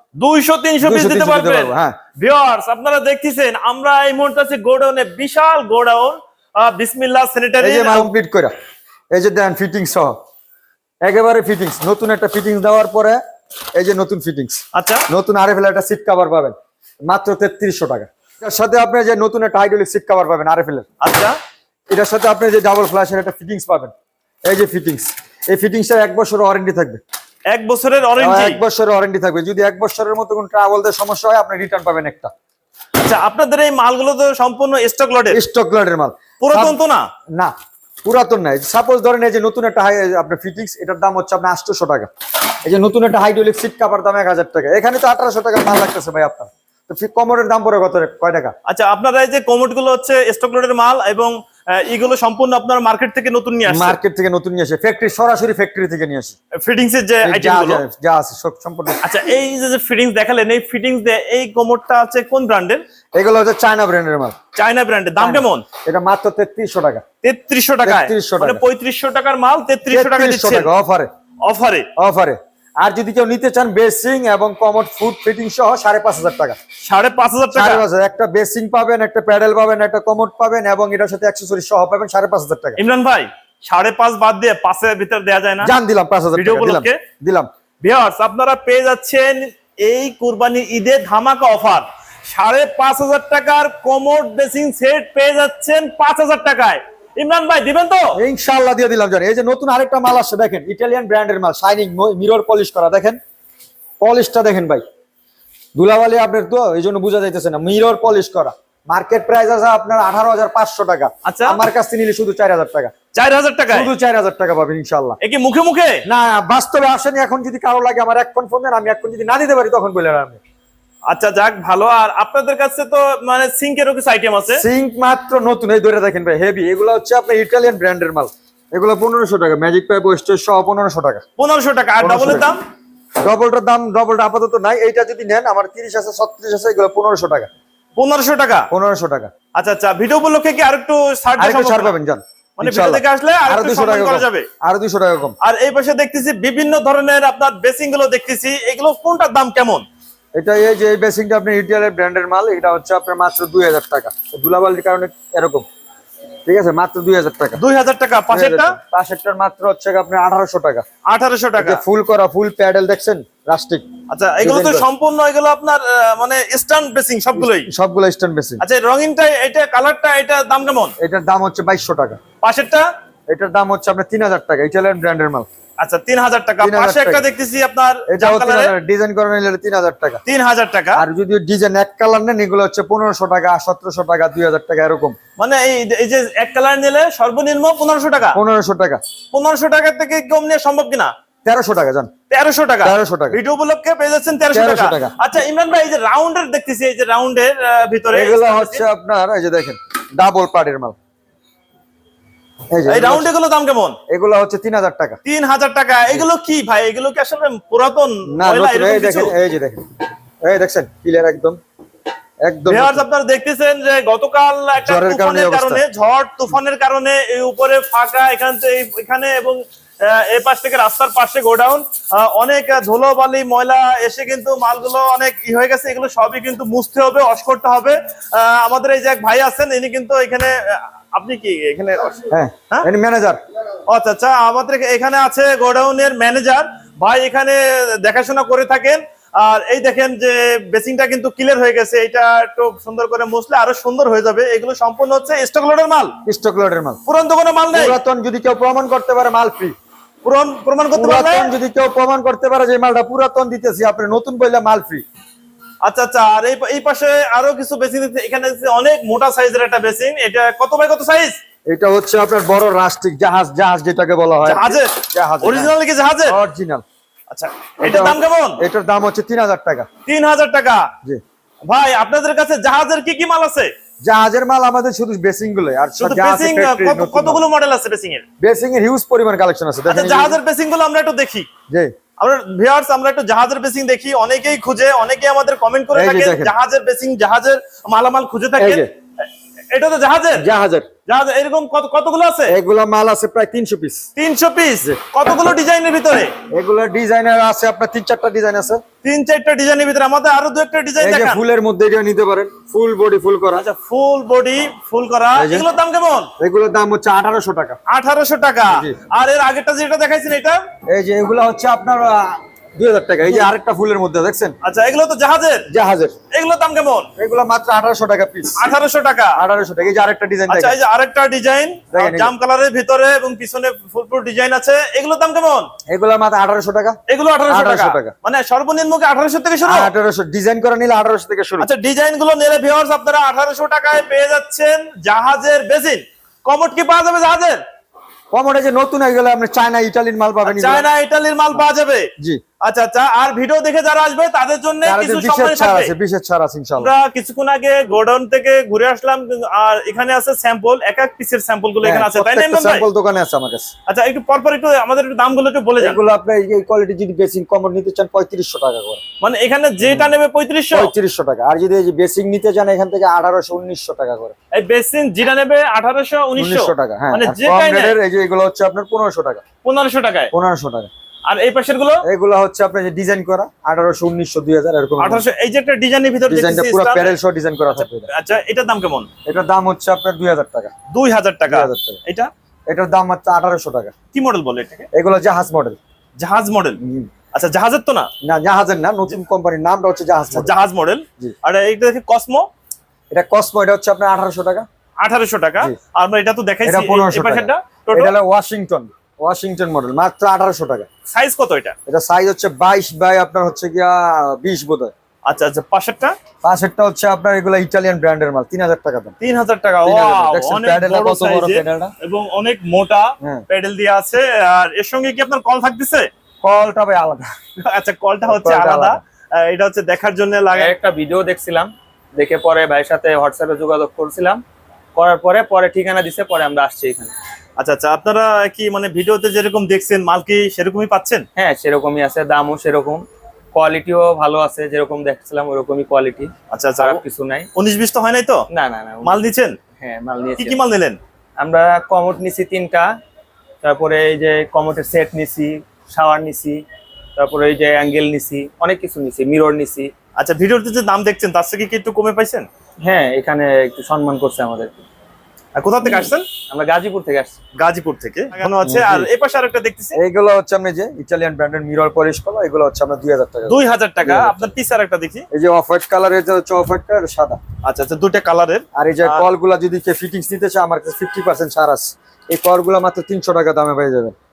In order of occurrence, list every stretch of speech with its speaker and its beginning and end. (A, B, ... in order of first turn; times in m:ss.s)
0:00.2-0:08.1 A
0:00.8-0:02.0 B
0:07.6-0:08.5 B
0:09.1-0:10.2 B
0:11.0-0:13.2 B
0:13.8-0:16.6 B
0:14.7-0:15.0 A
0:17.1-0:20.9 B
0:21.0-0:21.4 A
0:21.9-0:23.9 B
0:24.5-0:27.0 B
0:27.5-0:28.6 A
0:28.2-0:32.3 B
0:33.0-0:35.4 A
0:35.3-0:36.8 B
0:36.4-0:37.1 A
0:38.0-0:42.1 B
0:42.6-0:48.5 B
0:48.7-0:54.0 A
0:53.7-0:56.4 B
0:56.6-0:57.8 A
0:57.2-0:59.0 B
0:59.0-1:02.8 A
1:03.2-1:04.4 B
1:04.6-1:05.6 A
1:05.2-1:07.0 B
1:07.2-1:10.7 A
1:07.8-1:08.6 B
1:09.9-1:11.1 B
1:11.4-1:11.9 A
1:12.0-1:16.6 B
1:16.8-1:17.8 A
1:17.5-1:22.8 B
1:22.8-1:25.7 A
1:25.6-1:27.5 B
1:26.3-1:27.0 A
1:27.8-1:38.2 A
1:38.2-1:43.2 B
1:44.0-1:44.8 B
1:45.8-1:52.9 B
1:51.2-1:51.6 A
1:53.1-1:53.9 A
1:53.7-1:55.2 B
1:55.2-1:56.0 A
1:56.1-2:00.4 B
2:01.1-2:04.6 A
2:04.5-2:11.2 B
2:11.4-2:12.6 A
2:12.0-2:12.5 B
2:13.2-2:17.5 B
2:18.0-2:18.7 A
2:18.7-2:19.3 B
2:19.6-2:21.9 A
2:21.4-2:25.4 B
2:22.6-2:24.5 A
2:25.4-2:29.9 A
2:30.4-2:35.6 B
2:36.5-2:37.6 B
2:37.6-2:38.8 A
2:38.3-2:40.8 B
2:41.1-2:41.8 A
2:41.6-2:43.9 B
2:44.1-2:47.7 A
2:44.4-2:44.9 B
2:47.4-2:48.6 B
2:48.6-2:50.9 A
2:51.0-2:52.2 B
2:52.4-2:52.9 A
2:53.3-2:55.5 B
2:55.8-2:58.7 A
2:56.6-2:57.2 B
2:58.1-3:00.2 B
3:00.3-3:01.0 A
3:01.0-3:05.2 B
3:05.4-3:08.4 A
3:08.3-3:09.0 B
3:09.3-3:11.1 A
3:11.4-3:12.1 B
3:12.3-3:18.8 A
3:12.8-3:13.4 B
3:14.5-3:15.1 B
3:18.1-3:21.0 B
3:22.7-3:23.3 B
3:22.9-3:24.0 A
3:24.1-3:25.2 B
3:25.2-3:29.3 A
3:28.3-3:29.8 B
3:30.4-3:31.6 B
3:32.4-3:33.0 B
3:32.7-3:52.9 A
3:34.8-3:35.8 B
3:52.3-3:53.4 B
3:53.9-4:06.2 A
4:06.3-4:07.0 B
4:07.1-4:08.0 A
4:07.7-4:09.8 B
4:10.2-4:11.6 A
4:10.9-4:15.0 B
4:15.8-4:21.4 A
4:21.7-4:25.7 B
4:24.4-4:26.4 A
4:26.3-4:26.8 B
4:27.3-4:28.6 A
4:27.8-4:29.9 B
4:30.1-4:30.9 A
4:31.7-4:33.7 A
4:34.0-4:37.4 B
4:36.0-4:38.2 A
4:38.4-4:40.4 B
4:39.9-4:41.5 A
4:42.2-4:48.9 A
4:45.9-4:46.5 B
4:48.6-4:48.9 B
4:49.7-4:50.5 A
4:50.4-4:50.9 B
4:51.1-4:52.5 A
4:52.5-4:54.1 B
4:54.2-4:56.4 A
4:56.5-4:58.8 B
4:59.0-5:01.4 A
5:01.0-5:03.7 B
5:03.6-5:06.3 A
5:05.3-5:05.7 B
5:06.4-5:07.8 B
5:07.9-5:10.6 A
5:08.7-5:09.0 B
5:10.9-5:14.6 B
5:14.6-5:15.7 A
5:15.7-5:16.2 B
5:16.3-5:17.1 A
5:17.2-5:18.7 B
5:18.6-5:19.4 A
5:19.4-5:20.8 B
5:20.5-5:25.7 A
5:21.9-5:22.3 B
5:25.9-5:27.0 B
5:27.1-5:29.9 A
5:27.5-5:28.1 B
5:29.6-5:31.7 B
5:31.6-5:37.6 A
5:38.3-5:40.9 B
5:40.4-5:42.1 A
5:42.6-5:45.9 A
5:44.8-5:46.9 B
5:46.8-5:52.8 A
5:51.8-5:53.7 B
5:53.9-5:56.0 A
5:55.8-5:59.0 B
5:59.2-6:00.9 A
5:59.8-6:00.1 B
6:00.7-6:04.4 B
6:04.5-6:08.0 A
6:06.4-6:09.4 B
6:09.6-6:10.3 A
6:10.3-6:10.9 B
6:11.3-6:12.0 A
6:12.0-6:15.2 B
6:15.0-6:17.2 A
6:16.3-6:18.1 B
6:17.7-6:19.1 A
6:19.3-6:20.7 B
6:20.9-6:22.3 A
6:21.5-6:22.0 B
6:22.7-6:23.9 B
6:24.1-6:24.9 A
6:24.9-6:25.8 B
6:26.2-6:26.8 A
6:26.8-6:27.1 B
6:27.3-6:28.1 A
6:28.2-6:30.5 B
6:30.3-6:32.5 A
6:33.1-6:34.7 B
6:35.0-6:38.1 A
6:36.6-6:40.9 B
6:41.1-6:41.8 A
6:41.9-6:44.9 B
6:45.3-6:46.2 A
6:46.4-6:49.1 B
6:49.2-6:56.1 A
6:49.8-6:51.9 B
6:56.4-6:57.3 B
6:57.6-7:00.8 A
6:58.3-6:59.0 B
7:00.5-7:04.4 C
7:05.0-7:07.1 C
7:07.6-7:11.3 A
7:11.4-7:17.5 C
7:16.5-7:17.0 A
7:17.6-7:18.5 A
7:18.5-7:20.6 C
7:19.0-7:19.6 A
7:20.4-7:21.0 A
7:21.4-7:22.9 C
7:23.6-7:26.6 C
7:27.2-7:29.9 C
7:30.2-7:32.5 A
7:32.8-7:34.7 C
7:35.6-7:36.3 A
7:36.5-7:37.4 C
7:37.6-7:40.0 A
7:38.6-7:39.1 B
7:40.0-7:44.4 B
7:43.5-7:45.2 A
7:45.3-7:47.4 B
7:47.6-7:49.2 A
7:48.8-7:54.1 B